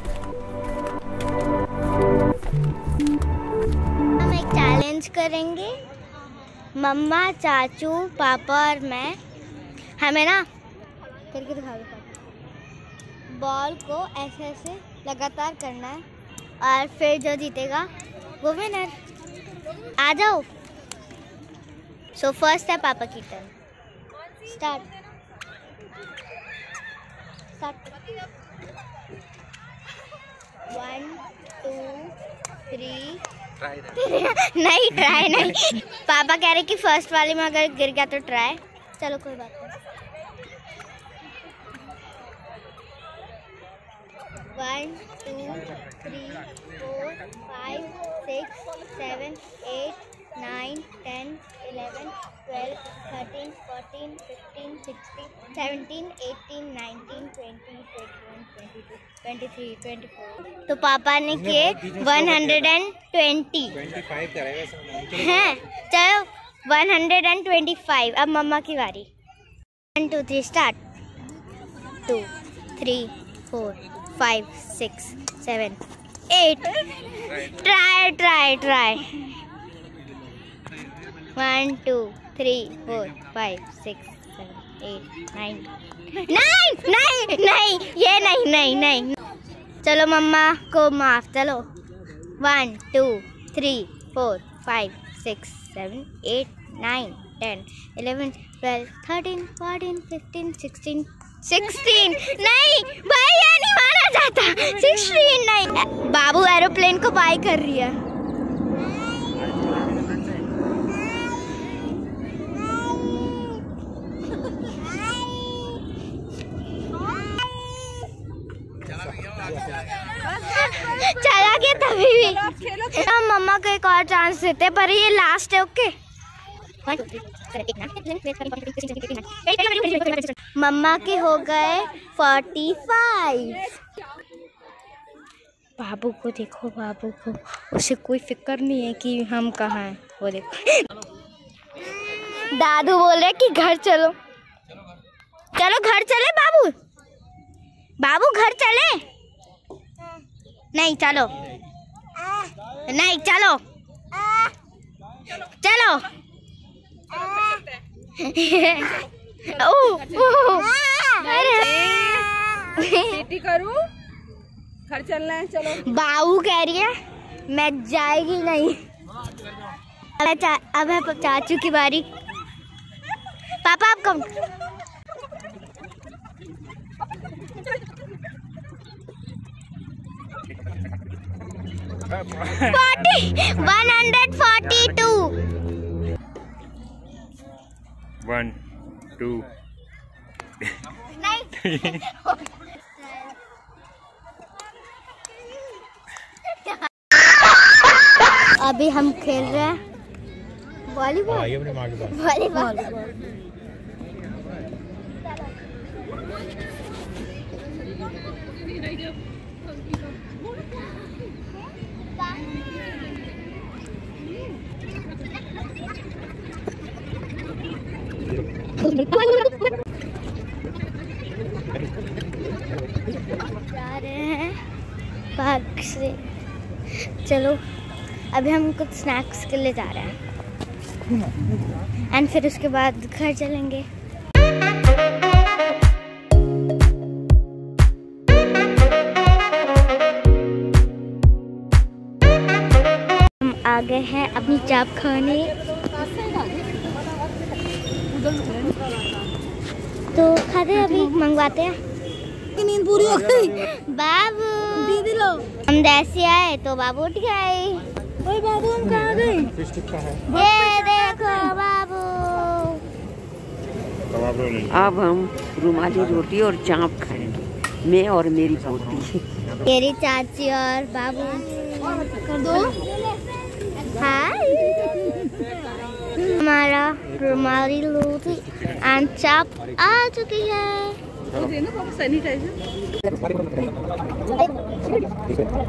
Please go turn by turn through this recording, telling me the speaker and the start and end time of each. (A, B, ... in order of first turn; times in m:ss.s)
0:04.2-0:05.8 A
0:06.8-0:09.2 A
0:10.0-0:10.5 A
0:11.3-0:12.2 A
0:13.3-0:16.0 A
0:16.6-0:19.0 A
0:20.0-0:20.5 A
0:22.2-0:23.5 A
0:24.4-0:24.9 A
0:27.6-0:28.0 A
0:30.7-0:32.2 A
0:32.7-0:33.2 A
0:33.8-0:39.8 A
0:44.5-1:04.0 A
1:04.1-1:04.6 B
1:05.0-1:09.1 A
1:10.0-1:10.8 A
1:12.1-1:19.3 A
1:21.4-1:29.2 A
1:29.8-1:31.7 A
1:32.4-1:48.0 A
1:49.4-1:50.4 B
2:00.3-2:05.9 A
2:02.5-2:03.0 C
2:06.8-2:13.7 A
2:15.8-2:20.9 A
2:21.8-2:24.2 A
2:25.5-2:26.7 A
2:28.0-2:29.0 A
2:30.7-2:31.3 A
2:32.9-2:33.6 A
2:35.4-2:36.1 A
2:37.2-2:37.7 C
2:38.2-2:43.2 A
2:41.3-2:41.6 C
2:43.0-2:43.9 C
2:44.9-2:45.8 C
2:45.6-2:46.9 A
2:47.5-2:48.8 A
2:50.2-2:52.1 A
2:53.6-2:54.3 A
3:02.4-3:05.4 A
3:08.2-3:08.6 B
3:09.2-3:09.5 B
3:11.1-3:13.4 A
3:18.4-3:19.8 A
3:20.9-3:23.0 A
3:38.8-3:39.6 A
3:43.5-3:44.6 A
3:45.4-3:46.3 A
3:46.9-3:47.6 A
3:48.3-3:50.2 A
3:51.1-3:53.9 A
4:03.4-4:05.5 A
4:08.2-4:08.8 C
4:10.1-4:11.8 A
4:12.6-4:13.5 C
4:13.4-4:19.5 A
4:15.0-4:15.4 C
4:20.3-4:22.8 A
4:24.1-4:24.7 B
4:24.6-4:29.2 D
4:29.6-4:32.8 A
4:32.5-4:32.8 C
4:33.9-4:34.9 A
4:36.2-4:41.0 A
4:41.4-4:42.6 C